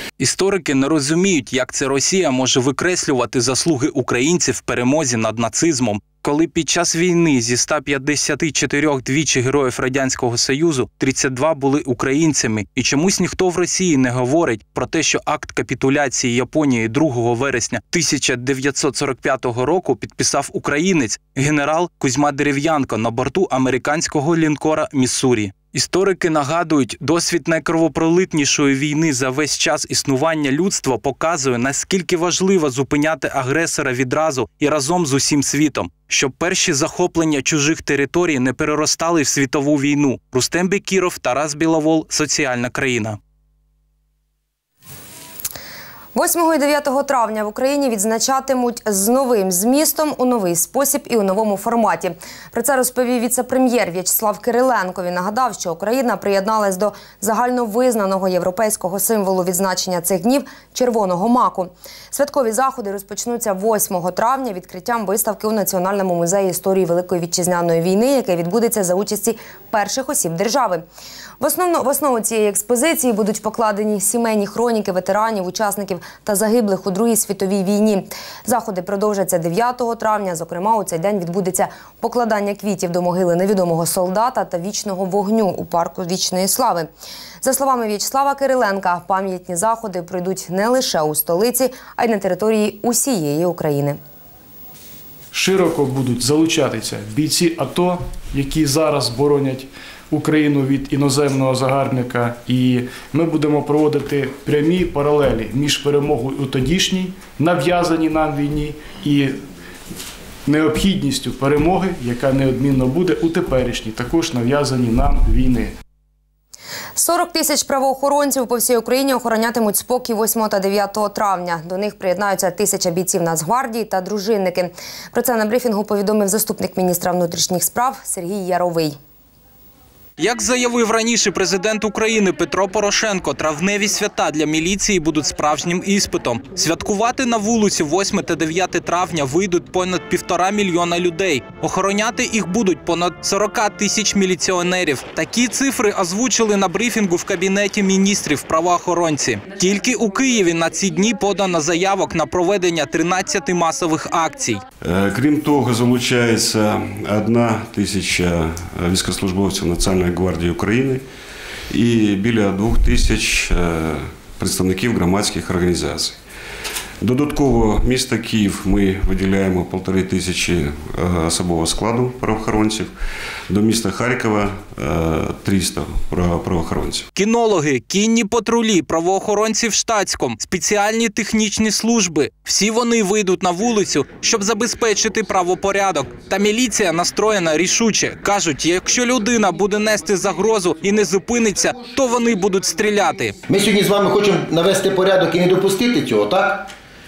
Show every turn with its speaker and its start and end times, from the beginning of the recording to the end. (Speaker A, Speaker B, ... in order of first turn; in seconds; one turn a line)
Speaker A: 0.2-43.2
Speaker B: 46.1-70.8
Speaker B: 71.4-86.9
Speaker B: 87.4-94.0
Speaker C: 95.3-109.4
Speaker C: 110.5-115.7
Speaker B: 117.0-129.0
Speaker A: 130.2-154.6
Speaker D: 154.8-161.0
Speaker D: 161.7-166.2
Speaker D: 167.0-172.9
Speaker D: 173.5-177.1
Speaker A: 177.2-193.3
Speaker E: 193.5-196.7